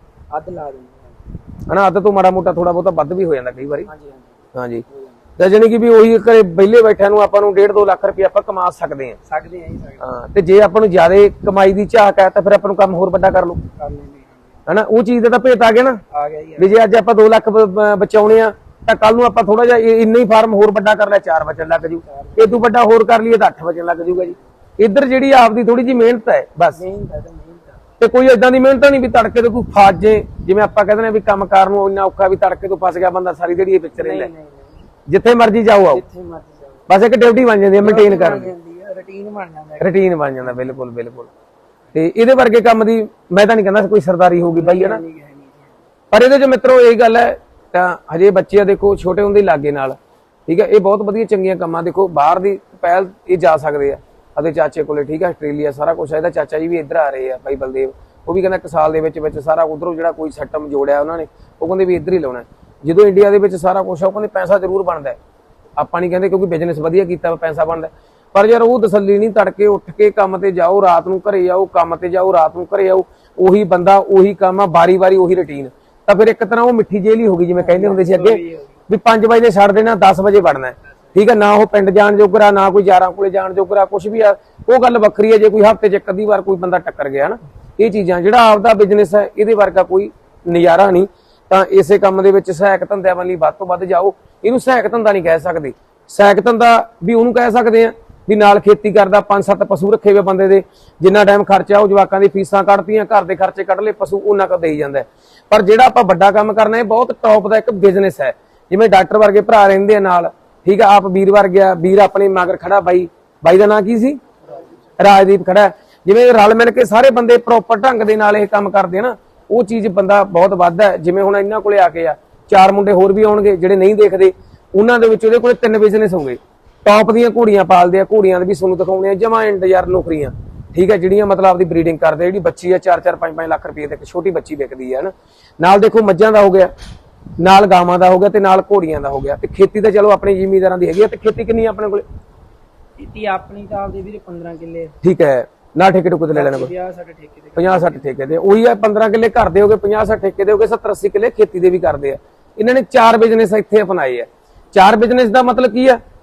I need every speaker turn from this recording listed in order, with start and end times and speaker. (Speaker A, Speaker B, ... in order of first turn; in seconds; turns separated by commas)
Speaker A: 0.3-1.2, Speaker B: 1.7-3.9, Speaker A: 3.9-5.2, Speaker B: 4.5-4.8, Speaker B: 5.4-9.2, Speaker A: 9.2-10.0, Speaker B: 10.0-13.6, Speaker A: 13.7-14.6, Speaker B: 14.7-16.0, Speaker A: 16.1-16.7, Speaker B: 16.6-26.8, Speaker A: 22.0-22.6, Speaker A: 24.1-24.4, Speaker A: 26.7-27.8, Speaker B: 28.0-34.3, Speaker A: 34.0-34.9, Speaker B: 35.1-36.0, Speaker A: 35.8-36.8, Speaker B: 36.9-38.5, Speaker A: 37.8-40.0, Speaker B: 39.8-41.3, Speaker B: 41.9-45.0, Speaker A: 44.5-45.8, Speaker B: 46.1-65.2, Speaker B: 65.8-114.2, Speaker A: 77.6-78.7, Speaker A: 114.5-114.8, Speaker B: 115.0-136.7, Speaker B: 137.4-142.0, Speaker A: 143.0-144.9, Speaker B: 145.0-146.7, Speaker A: 146.3-148.1, Speaker B: 147.6-156.0